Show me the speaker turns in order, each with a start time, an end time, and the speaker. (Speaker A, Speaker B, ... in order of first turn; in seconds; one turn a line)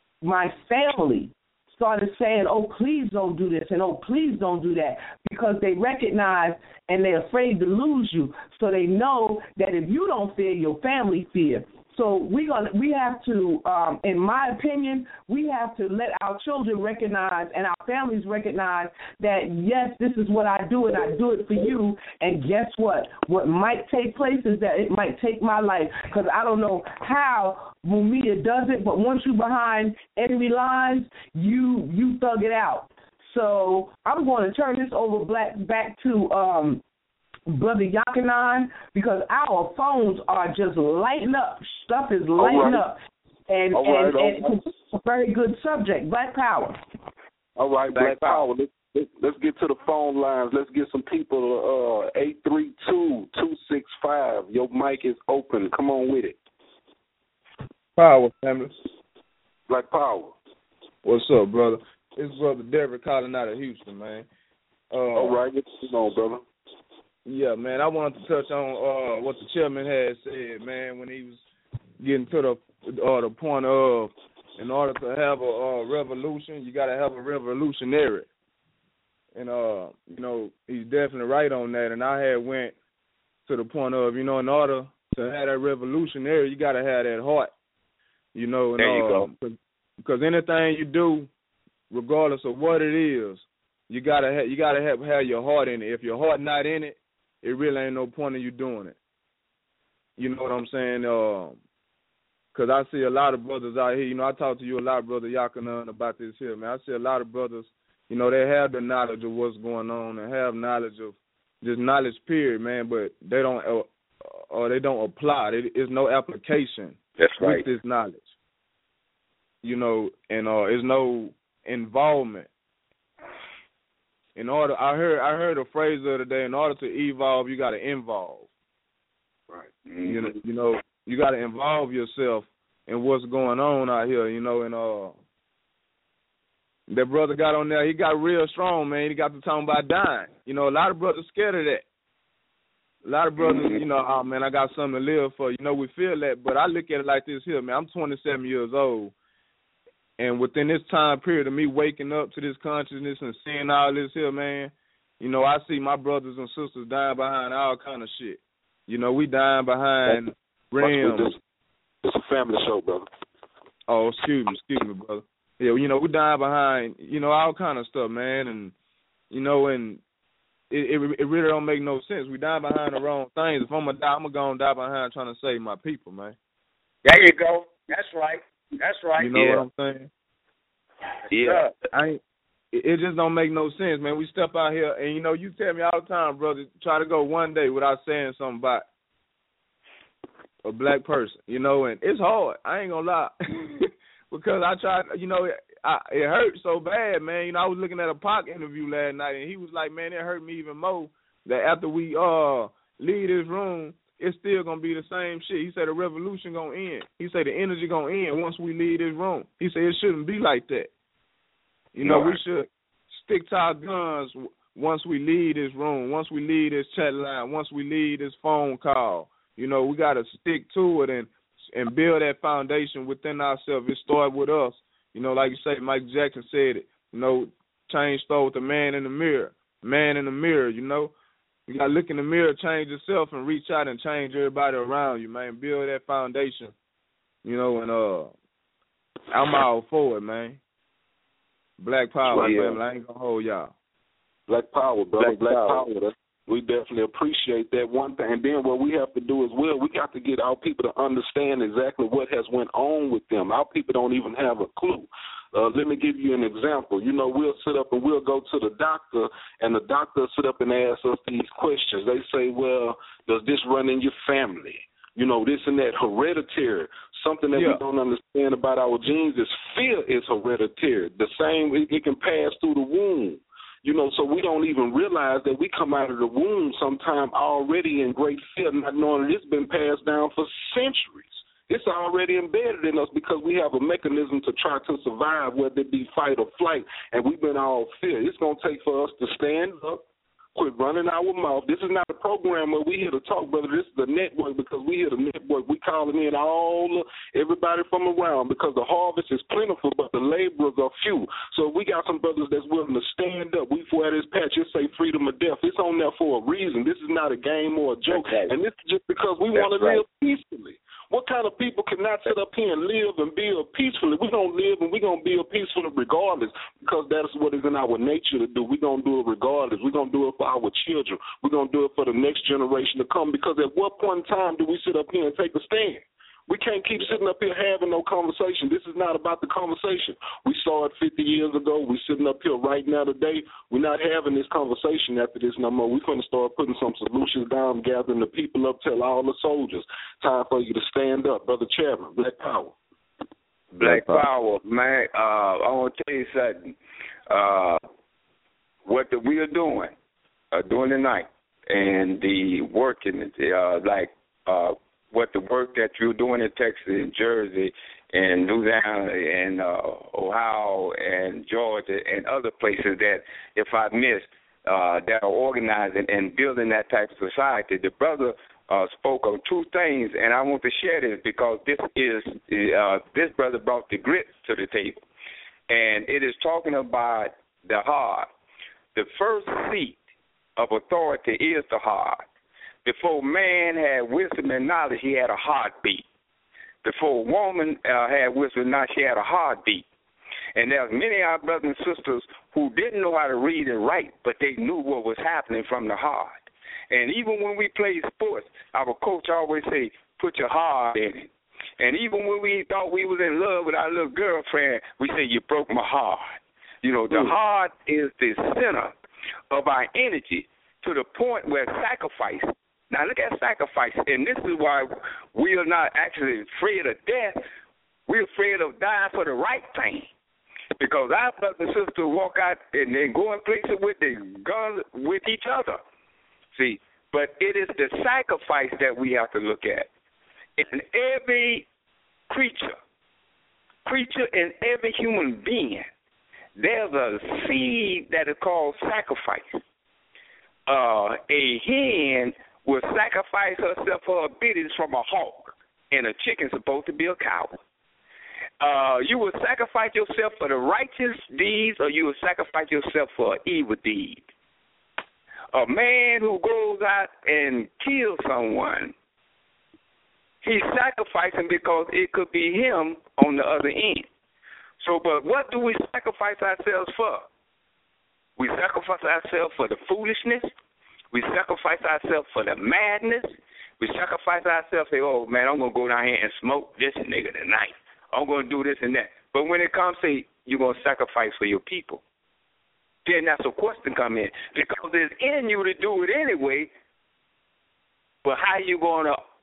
Speaker A: 0.2-36.8
Speaker A: 37.5-43.0
Speaker B: 42.4-42.9
Speaker A: 43.5-46.8
Speaker B: 43.7-44.6
Speaker B: 47.6-56.4
Speaker C: 58.0-58.7
Speaker B: 59.7-60.4
Speaker C: 61.0-64.3
Speaker C: 64.9-65.4
Speaker B: 65.1-66.4
Speaker C: 67.3-71.4
Speaker C: 72.0-78.3
Speaker C: 79.3-82.7
Speaker C: 83.5-87.5
Speaker C: 88.3-91.3
Speaker D: 88.8-89.3
Speaker C: 91.9-99.0
Speaker C: 100.2-101.6
Speaker C: 102.5-113.9
Speaker C: 114.4-118.2
Speaker D: 117.2-117.7
Speaker C: 119.6-122.5
Speaker C: 124.4-128.5
Speaker D: 129.9-130.3
Speaker C: 130.0-135.2
Speaker C: 136.9-141.8
Speaker C: 143.0-149.1
Speaker D: 143.4-143.8
Speaker C: 150.2-161.3
Speaker B: 160.8-161.4
Speaker B: 162.0-163.1
Speaker C: 163.9-168.7
Speaker C: 169.3-170.0
Speaker C: 170.7-176.3
Speaker E: 177.0-179.6
Speaker C: 179.2-180.1
Speaker D: 181.3-181.7
Speaker E: 181.4-181.8
Speaker C: 181.9-182.2
Speaker C: 182.7-188.8
Speaker C: 190.7-210.9
Speaker C: 211.9-231.1
Speaker D: 212.0-212.4
Speaker C: 231.7-236.7
Speaker C: 237.4-238.3
Speaker C: 239.3-240.6
Speaker C: 241.8-243.7
Speaker D: 242.3-242.8
Speaker B: 244.5-290.1
Speaker D: 245.2-245.8
Speaker C: 267.6-267.8
Speaker B: 290.6-342.8
Speaker D: 308.1-308.5
Speaker D: 309.5-310.0
Speaker D: 343.8-346.7
Speaker B: 343.9-344.2
Speaker D: 347.3-347.8
Speaker D: 348.9-349.9
Speaker D: 350.5-375.0
Speaker D: 375.7-378.3
Speaker D: 378.9-380.0
Speaker D: 380.6-382.2
Speaker D: 382.9-386.0
Speaker D: 386.8-389.9
Speaker D: 390.6-408.9
Speaker D: 409.5-417.4
Speaker D: 418.1-420.1
Speaker D: 420.8-425.8
Speaker D: 426.6-429.9
Speaker D: 430.6-431.6
Speaker D: 432.3-432.8
Speaker D: 433.9-435.9
Speaker D: 436.6-439.6
Speaker D: 440.7-447.6
Speaker D: 448.6-454.2
Speaker D: 455.5-458.9
Speaker D: 460.4-464.1
Speaker D: 464.8-467.3
Speaker D: 468.4-470.5
Speaker D: 471.1-482.0
Speaker D: 483.1-486.7
Speaker D: 488.2-489.2